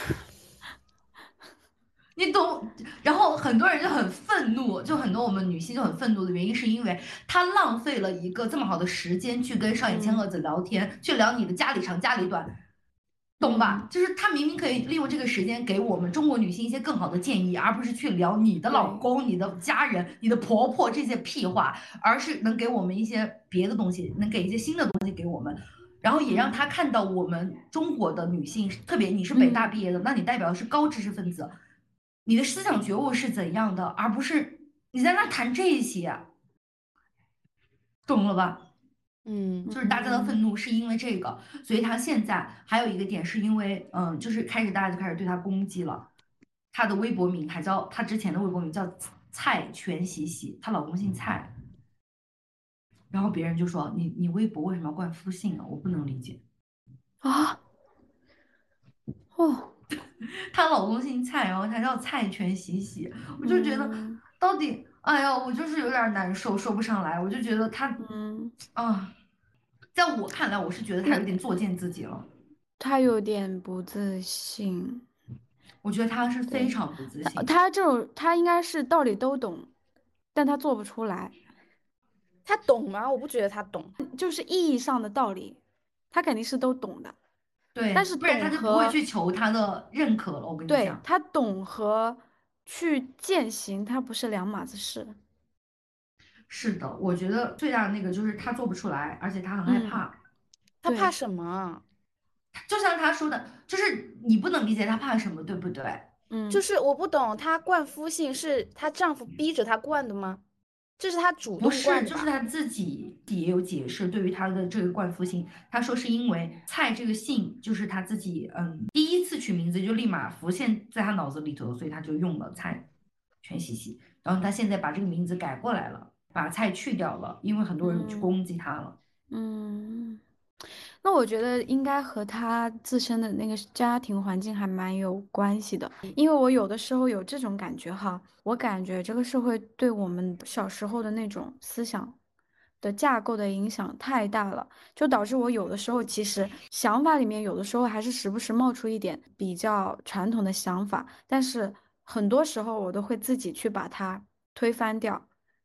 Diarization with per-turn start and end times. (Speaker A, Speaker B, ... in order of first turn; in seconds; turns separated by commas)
Speaker A: 2.1-12.5, Speaker B: 9.9-10.2, Speaker A: 13.4-31.5, Speaker B: 13.4-13.9, Speaker B: 18.7-19.0, Speaker B: 26.3-26.6, Speaker B: 29.3-29.7, Speaker A: 32.2-36.3, Speaker A: 38.0-38.6, Speaker C: 39.2-39.8, Speaker B: 39.7-40.3, Speaker A: 39.7-46.1, Speaker A: 46.7-51.5, Speaker A: 53.1-56.4, Speaker B: 57.2-57.6, Speaker B: 59.3-59.7, Speaker A: 60.2-68.0, Speaker B: 63.4-64.2, Speaker B: 68.0-68.5, Speaker A: 68.7-69.1, Speaker A: 69.9-72.3, Speaker B: 72.8-75.0, Speaker A: 75.8-77.5, Speaker B: 76.5-79.7, Speaker B: 80.3-81.3, Speaker C: 82.5-84.0, Speaker B: 84.0-85.6, Speaker B: 86.1-87.2, Speaker A: 87.7-91.0, Speaker B: 87.9-89.0, Speaker B: 90.7-95.2, Speaker A: 96.5-100.1, Speaker B: 99.7-100.0, Speaker C: 100.8-101.8, Speaker A: 102.5-106.1, Speaker B: 106.3-106.6, Speaker C: 106.5-110.4, Speaker C: 111.0-112.3, Speaker A: 111.6-122.9, Speaker A: 123.4-129.0, Speaker B: 127.8-128.3, Speaker B: 129.3-130.2, Speaker B: 131.0-142.2, Speaker B: 142.8-155.3